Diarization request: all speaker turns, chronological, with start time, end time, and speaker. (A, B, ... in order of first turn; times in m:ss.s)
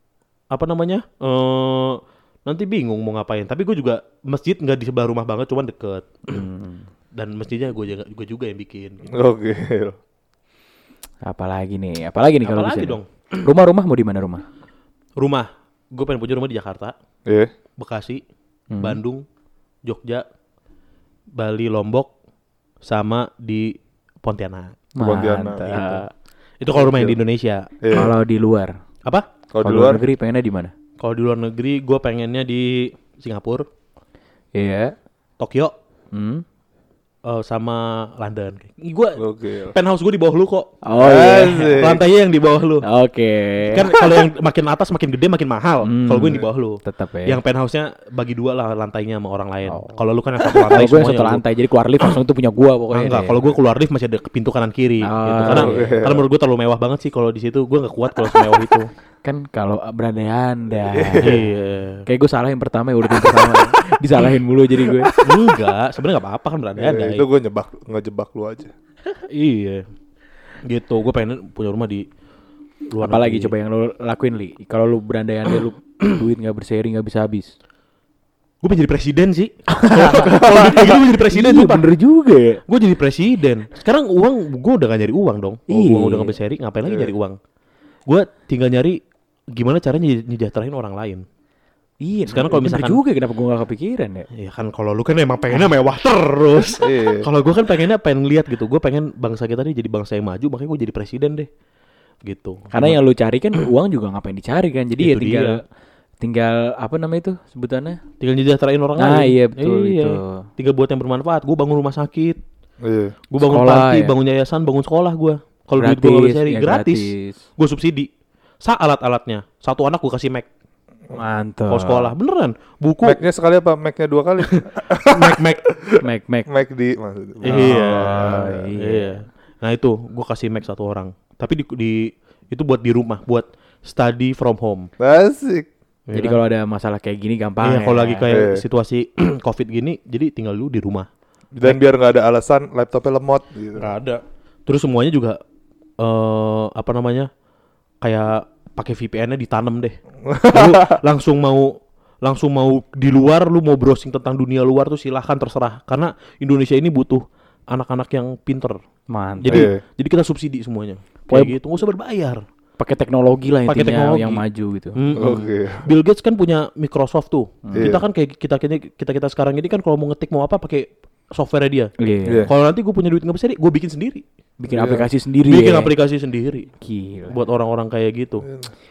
0:00.5-0:06.4 A
0:06.3-0:06.9 B
0:07.1-0:09.0 A
0:09.1-0:10.0 C
0:11.2-0:14.4 B
0:12.4-0:13.4 A
0:15.2-0:16.9 A
0:17.2-0:17.5 C
0:17.8-0:18.2 A
0:18.7-0:19.0 B
0:18.8-0:19.2 A
0:19.8-0:20.2 A
0:21.4-0:22.1 A
0:22.8-0:24.8 A
0:25.0-0:26.1 B
0:25.0-0:25.8 C
0:25.7-0:26.0 A
0:26.6-0:28.1 A
0:26.7-0:27.2 C
0:27.8-0:28.1 C
0:27.9-0:28.8 B
0:29.5-0:30.0 C
0:29.6-0:30.7 B
0:31.0-0:33.6 A
0:34.5-0:34.9 B
0:35.4-0:35.7 A
0:36.1-0:36.4 B
0:37.2-0:40.8 A
0:39.2-0:39.7 C
0:40.8-0:41.9 B
0:41.0-0:42.0 C
0:41.4-0:42.8 A
0:42.8-0:44.0 B
0:43.6-0:51.4 A
0:45.8-0:47.4 B
0:49.7-0:50.0 B
0:50.6-0:53.4 B
0:52.9-0:58.9 A
0:55.0-0:56.0 B
0:55.5-0:56.2 C
0:59.2-1:01.4 B
1:00.9-1:01.5 C
1:01.2-1:02.0 A
1:02.0-1:05.1 B
1:05.2-1:07.3 A
1:06.8-1:08.7 C
1:09.3-1:09.8 A
1:10.6-1:12.0 A
1:12.9-1:13.5 A
1:13.0-1:17.5 B
1:18.6-1:21.9 A
1:19.7-1:22.6 B
1:22.7-1:27.4 A
1:25.7-1:26.4 B
1:26.8-1:27.1 C
1:28.1-1:29.0 A
1:29.5-1:31.2 A
1:32.0-1:34.2 B
1:32.3-1:33.0 A
1:34.3-1:41.5 A
1:36.8-1:37.3 C
1:42.2-1:43.0 A
1:42.7-1:45.6 B
1:45.0-1:45.6 A
1:46.2-1:48.0 B
1:48.2-1:52.4 A
1:49.0-1:50.4 B
1:52.8-1:53.2 C
1:53.3-1:58.1 A
1:53.4-1:54.1 B
1:55.8-1:57.4 B
1:58.6-2:00.5 A
2:01.1-2:02.1 B
2:01.7-2:03.2 A
2:03.0-2:08.6 C
2:04.4-2:05.6 A
2:06.0-2:06.5 B
2:07.4-2:14.9 A
2:07.5-2:09.2 B
2:15.0-2:15.7 C
2:16.1-2:16.4 A
2:16.1-2:18.3 B
2:17.6-2:21.1 A
2:18.3-2:18.6 C
2:21.5-2:23.9 C
2:23.8-2:25.4 A
2:26.0-2:27.3 A
2:28.0-2:30.0 A
2:30.2-2:31.0 C
2:30.5-2:38.8 A
2:39.1-2:39.7 B
2:39.4-2:42.4 A
2:39.4-2:39.8 C
2:41.3-2:41.6 B
2:42.8-2:45.0 B
2:43.7-2:44.4 A
2:44.9-2:51.9 A
2:45.2-2:45.9 C
2:47.6-2:48.0 B
2:47.8-2:48.0 C
2:52.0-2:52.5 B
2:52.2-2:52.5 C
2:52.5-2:54.2 A
2:54.6-2:55.9 B
2:54.7-2:55.0 C
2:55.4-2:56.7 A
2:56.8-2:57.4 B
2:57.3-2:58.4 A